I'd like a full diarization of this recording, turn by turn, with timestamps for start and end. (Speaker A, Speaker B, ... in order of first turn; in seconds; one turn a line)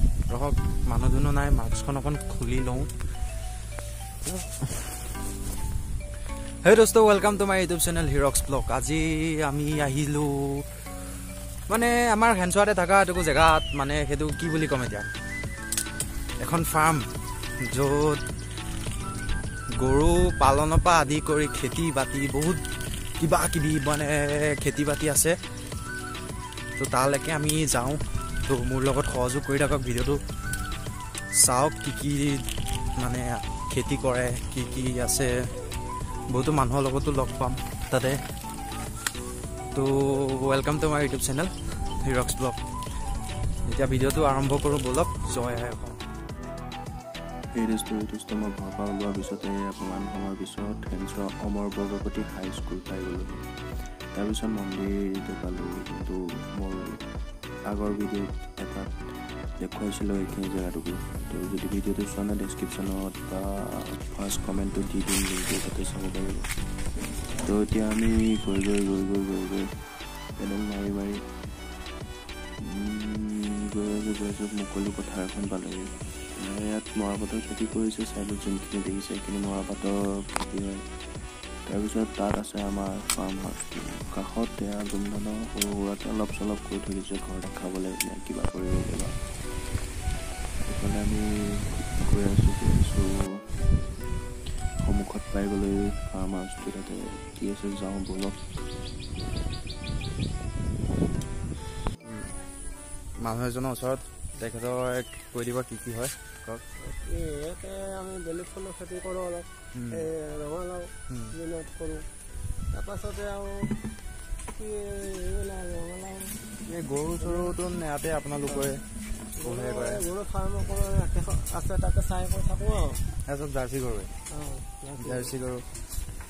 Speaker A: 0.3-2.9
Speaker A: 4.2-4.9
Speaker A: 6.6-10.7
Speaker A: 11.7-15.1
Speaker A: 16.4-17.1
Speaker A: 17.6-18.2
Speaker A: 19.8-22.6
Speaker A: 23.1-25.4
Speaker A: 26.8-30.2
Speaker A: 31.3-35.3
Speaker A: 36.3-38.2
Speaker A: 39.7-42.6
Speaker A: 43.7-46.0
Speaker B: 47.5-57.0
Speaker B: 57.7-66.5
Speaker B: 67.3-71.2
Speaker B: 72.6-80.9
Speaker B: 81.7-89.2
Speaker B: 90.7-93.6
Speaker B: 94.8-98.4
Speaker A: 102.0-102.3
Speaker A: 103.2-106.6
Speaker C: 106.8-112.1
Speaker A: 109.7-110.1
Speaker A: 111.1-111.3
Speaker C: 112.7-113.7
Speaker C: 114.5-116.5
Speaker A: 116.6-118.9
Speaker C: 117.2-117.5
Speaker C: 119.4-123.0
Speaker A: 119.4-120.0
Speaker A: 123.3-124.1
Speaker C: 124.3-125.3
Speaker A: 125.0-125.6